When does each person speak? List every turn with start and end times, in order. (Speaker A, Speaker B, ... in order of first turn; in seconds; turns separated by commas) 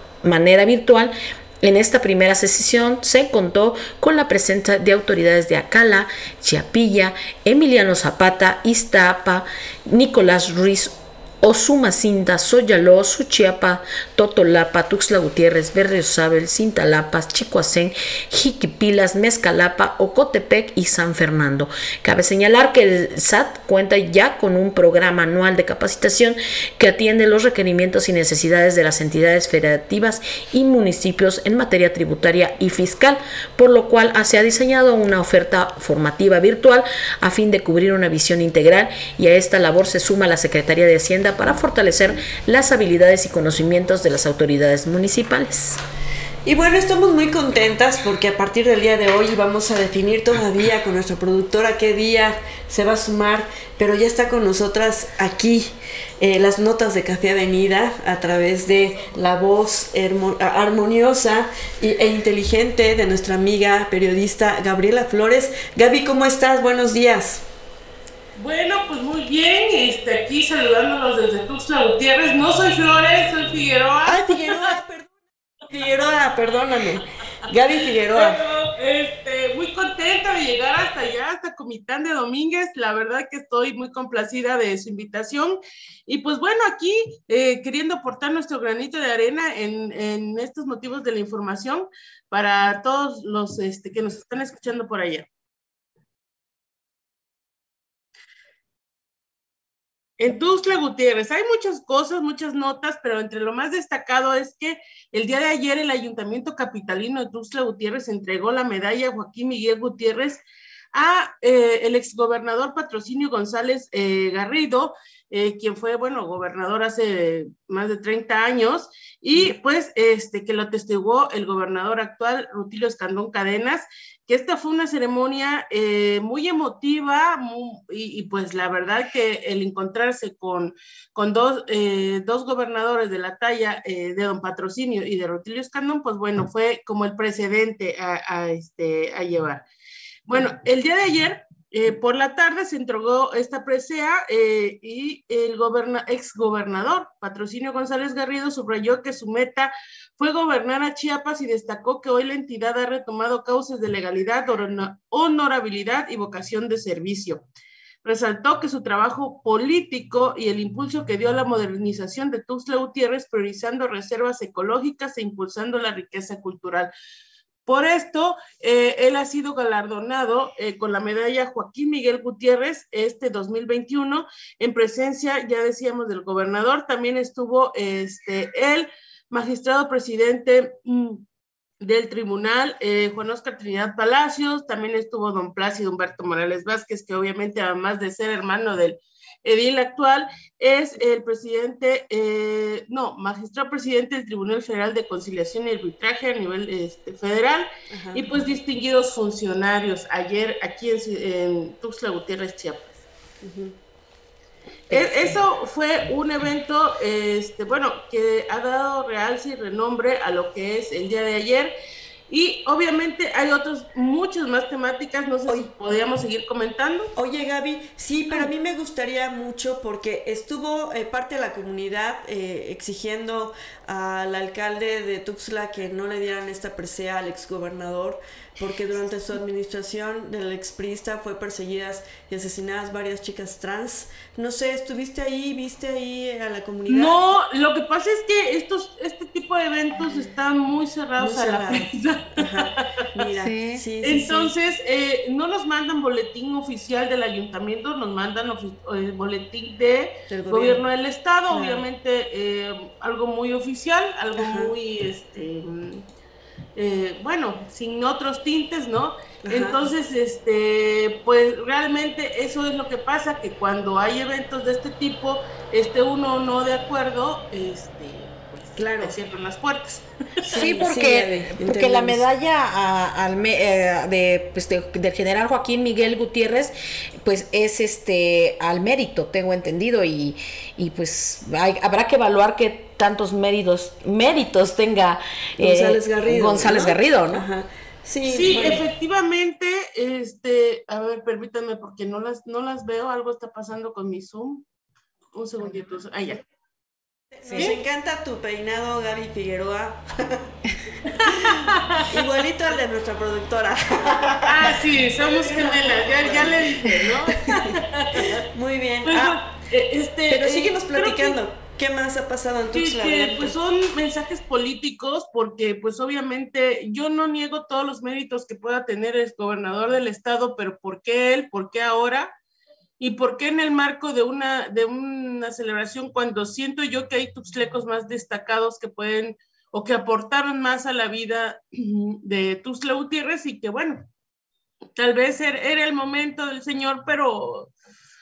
Speaker A: 0.2-45.8, Speaker B: 46.4-67.4, Speaker C: 68.3-74.6, Speaker B: 74.0-75.1, Speaker B: 75.7-78.4, Speaker C: 78.1-95.3, Speaker C: 100.2-110.4, Speaker C: 110.9-139.6, Speaker C: 140.3-157.4, Speaker C: 158.0-166.9, Speaker C: 167.7-181.2, Speaker C: 181.8-203.0, Speaker B: 197.9-198.2, Speaker B: 203.4-203.7, Speaker C: 204.9-211.7, Speaker C: 212.3-217.1, Speaker B: 217.2-237.2, Speaker C: 236.9-242.8, Speaker B: 241.2-244.5, Speaker A: 243.3-243.8, Speaker C: 244.0-256.1, Speaker B: 250.3-250.8, Speaker B: 251.5-251.8, Speaker B: 254.4-254.7, Speaker C: 256.8-270.1, Speaker B: 259.4-259.8, Speaker B: 268.8-269.1, Speaker B: 270.4-272.2, Speaker A: 270.5-287.4, Speaker B: 285.6-288.8, Speaker C: 288.2-294.6, Speaker C: 295.3-296.4, Speaker B: 297.4-300.5, Speaker B: 301.2-309.4, Speaker C: 301.5-302.0, Speaker C: 304.4-308.4, Speaker C: 309.0-311.4, Speaker B: 310.3-313.5, Speaker C: 312.7-322.3, Speaker C: 323.0-334.1, Speaker C: 334.9-337.7